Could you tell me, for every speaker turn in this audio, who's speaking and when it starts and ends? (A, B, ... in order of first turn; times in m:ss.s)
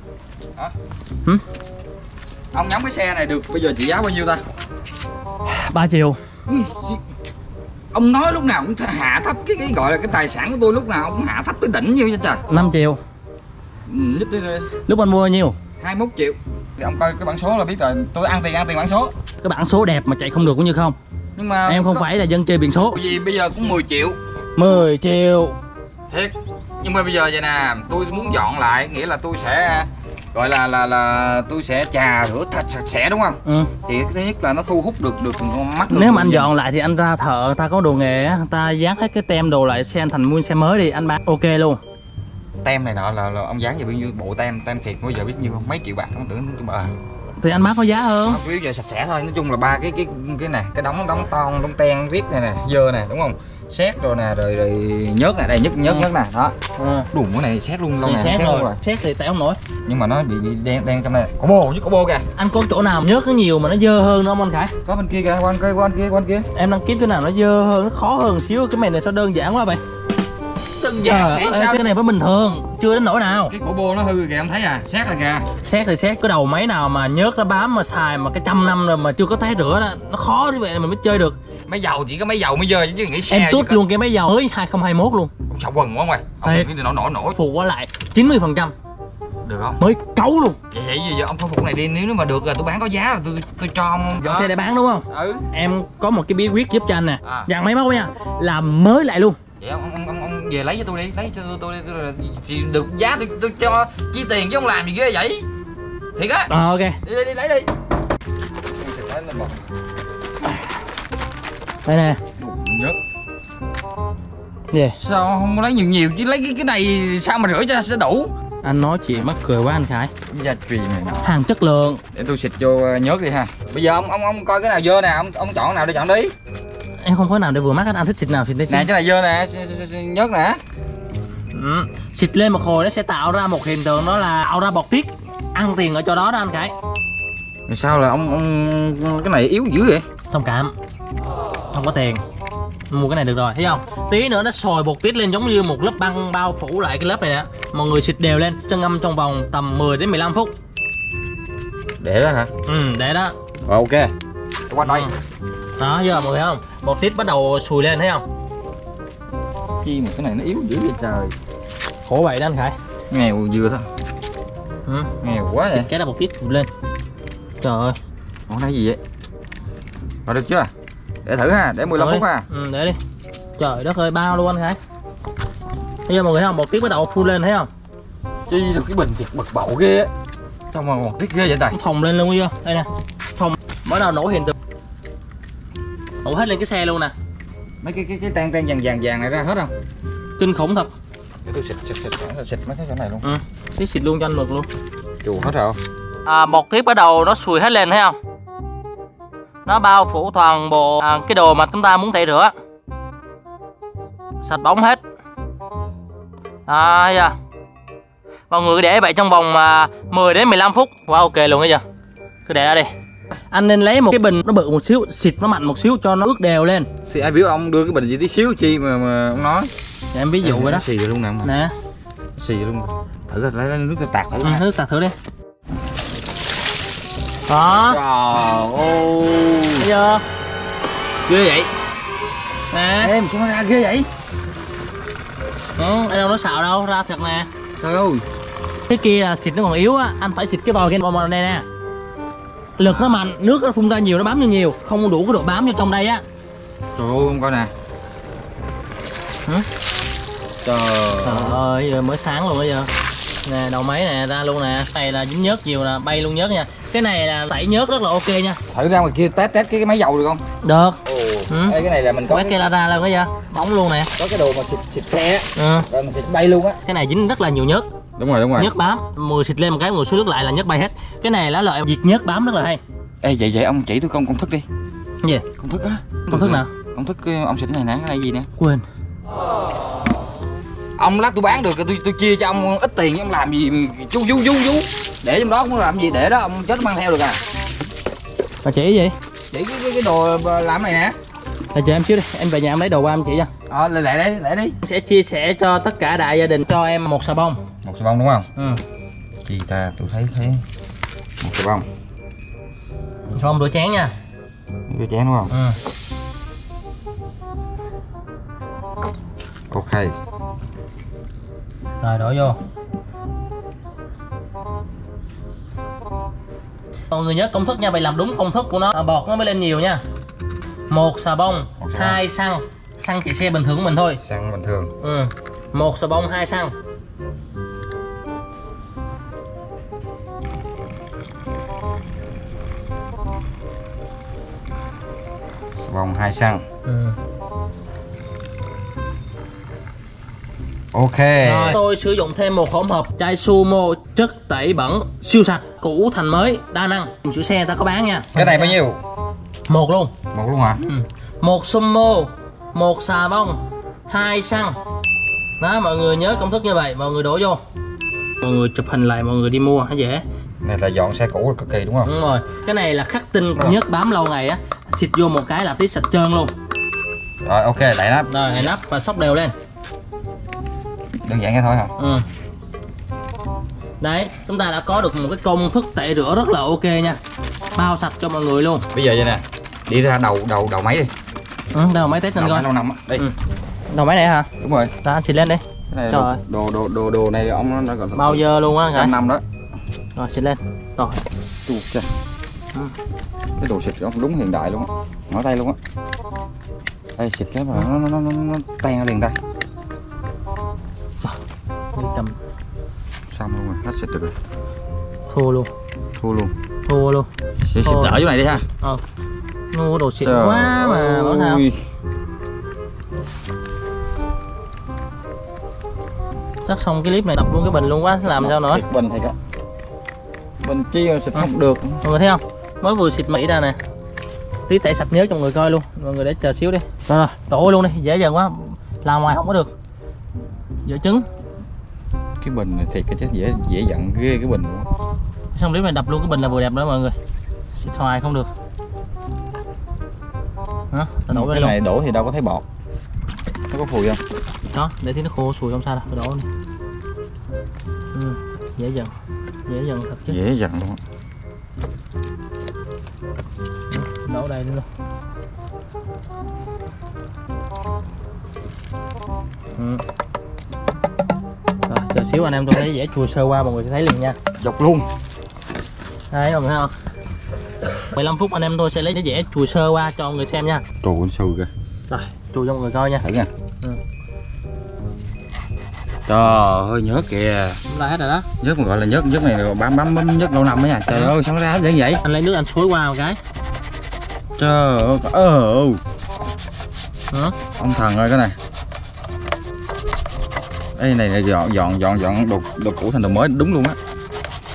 0:02.5-0:04.4 A
0:05.4-0:06.2 B
0:06.5-0:07.0 A
0:07.9-0:12.5 A
0:12.5-0:13.0 B
0:13.8-0:14.7 A
0:14.9-0:15.6 B
0:15.8-0:19.1 A
0:19.4-0:21.0 B
0:21.4-0:22.1 A
0:21.6-0:23.0 B
0:22.9-0:24.2 A
0:24.6-0:25.6 B
0:26.1-0:36.5 A
0:33.4-0:33.7 B
0:35.9-0:41.8 B
0:42.6-0:46.9 A
0:47.4-0:48.4 B
0:48.2-0:56.5 A
0:55.8-0:56.1 B
0:56.8-0:57.1 B
0:57.1-0:58.8 A
0:58.0-0:59.6 B
0:59.8-1:02.2 A
1:02.4-1:04.7 B
1:04.8-1:06.5 A
1:06.5-1:09.8 B
1:10.8-1:11.8 A
1:10.8-1:13.5 B
1:13.5-1:15.5 A
1:15.6-1:21.4 B
1:21.7-1:23.8 A
1:23.3-1:25.3 B
1:25.5-1:27.4 A
1:26.4-1:26.7 B
1:27.3-1:28.7 B
1:29.4-1:29.8 A
1:29.8-1:30.6 B
1:30.7-1:34.6 A
1:34.2-1:39.4 B
1:35.1-1:35.4 A
1:37.2-1:37.5 A
1:39.6-1:45.4 A
1:46.2-1:46.5 A
1:46.5-1:47.0 B
1:47.0-1:47.7 A
1:48.7-1:49.6 A
1:51.8-1:52.2 B
1:52.4-1:53.0 A
1:54.7-1:55.0 B
1:54.9-1:58.3 A
1:58.6-2:00.1 B
2:00.3-2:01.2 A
2:01.2-2:02.0 B
2:02.1-2:06.3 A
2:07.0-2:08.9 B
2:08.7-2:10.6 A
2:11.5-2:16.7 B
2:17.7-2:20.0 A
2:20.3-2:20.7 B
2:21.7-2:22.2 B
2:22.9-2:30.5 B
2:32.0-2:32.5 A
2:32.6-2:33.3 B
2:33.7-2:34.1 A
2:34.7-2:35.1 A
2:34.8-2:35.1 B
2:35.8-2:38.2 B
2:39.8-2:41.3 A
2:42.0-2:42.8 B
2:43.1-2:43.8 A
2:44.9-2:45.1 B
2:45.2-2:45.9 A
2:45.7-2:46.7 B
2:47.6-2:48.0 B
2:48.5-2:49.0 A
2:50.2-2:50.7 A
2:51.2-2:52.4 A
2:51.9-2:53.0 B
2:53.6-2:54.8 B
2:56.1-2:57.7 B
2:58.5-3:00.1 A
3:00.7-3:01.8 A
3:01.7-3:04.5 B
3:06.2-3:07.1 B
3:07.8-3:09.7 A
3:10.4-3:10.9 B
3:11.4-3:13.3 A
3:13.2-3:14.7 B
3:15.2-3:15.8 A
3:16.2-3:18.2 B
3:19.6-3:22.5 B
3:24.4-3:25.0 B
3:26.7-3:27.3 B
3:28.5-3:31.8 B
3:32.4-3:32.9 B
3:33.5-3:36.9 B
3:37.1-3:39.7 A
3:40.1-3:40.8 B
3:40.4-3:41.5 A
3:41.4-3:41.7 B
3:42.4-3:44.6 A
3:44.4-3:45.1 B
3:47.5-3:48.0 B
3:47.9-3:49.9 A
3:49.8-3:50.2 B
3:51.3-3:51.7 A
3:52.7-3:53.1 B
3:53.0-3:54.1 A
3:55.8-3:57.5 B
3:57.8-3:58.2 A
3:58.9-4:01.6 B
4:02.8-4:06.2 B
4:07.0-4:07.7 A
4:10.6-4:11.6 A
4:11.2-4:12.9 B
4:13.4-4:18.6 B
4:18.7-4:20.4 A
4:20.6-4:21.8 B
4:21.0-4:22.6 A
4:22.3-4:24.1 B
4:24.2-4:26.8 A
4:25.6-4:25.9 B
4:26.8-4:27.9 B
4:28.2-4:28.7 A
4:28.6-4:32.8 B
4:33.2-4:34.6 A
4:35.6-4:38.5 A
4:36.3-4:36.7 B
4:38.6-4:38.8 B
4:41.0-4:47.4 A
4:48.6-4:49.1 B
4:49.5-4:51.1 A
4:51.7-4:53.5 B
4:53.7-4:54.8 A
4:54.8-4:57.6 B
4:57.8-4:58.5 A
4:59.4-5:00.6 A
5:01.4-5:01.8 A
5:03.3-5:04.1 B
5:04.9-5:05.5 A
5:05.5-5:05.8 B
5:09.7-5:10.1 A
5:12.0-5:12.6 B
5:17.1-5:20.0 B
5:20.9-5:24.2 B
5:21.8-5:22.2 A
5:24.2-5:24.9 A
5:25.0-5:26.7 B
5:35.8-5:36.6 A
5:36.8-5:37.2 B
5:40.9-5:41.8 A
5:41.4-5:48.8 B
5:48.3-5:49.0 A
5:49.7-5:50.1 B
5:50.3-5:50.8 A
5:50.8-5:54.8 B
5:55.6-5:57.6 B
5:58.4-6:00.2 B
6:00.6-6:02.1 A
6:02.0-6:06.5 B
6:07.4-6:08.3 A
6:08.3-6:09.5 B
6:11.2-6:11.9 A
6:12.0-6:12.2 B
6:14.0-6:17.2 B
6:17.7-6:18.9 B
6:18.9-6:21.1 A
6:21.7-6:22.7 B
6:22.3-6:23.3 A
6:23.9-6:24.5 B
6:24.6-6:24.9 A
6:25.0-6:26.4 B
6:25.9-6:29.4 A
6:28.1-6:29.1 B
6:30.2-6:31.2 B
6:31.6-6:32.1 A
6:33.6-6:35.8 A
6:37.2-6:39.4 A
6:41.9-6:42.4 B
6:43.3-6:44.3 A
6:45.3-6:45.7 B
6:46.2-6:46.5 A
6:46.8-6:47.3 B
6:47.7-6:48.6 A
6:47.8-6:48.2 B
6:49.7-6:51.6 B
6:50.2-6:51.8 A
6:56.6-6:58.8 B
6:58.3-6:59.4 A
7:00.6-7:02.0 A
7:02.0-7:03.8 B
7:04.7-7:09.7 B
7:10.8-7:11.2 B
7:12.4-7:14.9 A
7:15.5-7:17.2 B
7:17.8-7:18.5 B
7:20.9-7:21.8 B
7:21.3-7:22.6 A
7:23.7-7:24.2 A
7:24.7-7:26.5 B
7:28.1-7:29.1 B
7:29.7-7:30.4 B
7:30.3-7:31.0 A
7:33.9-7:34.8 B
7:39.8-7:40.0 B
7:41.9-7:44.4 B
7:44.6-7:45.1 A
7:46.3-7:46.9 B
7:48.0-7:50.8 B
7:51.0-7:51.7 A
7:52.1-7:53.2 B
7:53.2-7:53.5 A
7:56.3-7:57.8 A
7:57.9-7:58.5 B
7:58.6-8:02.2 A
8:02.2-8:03.4 B
8:04.6-8:06.0 A
8:07.3-8:07.6 B
8:07.8-8:08.6 A
8:11.0-8:14.0 A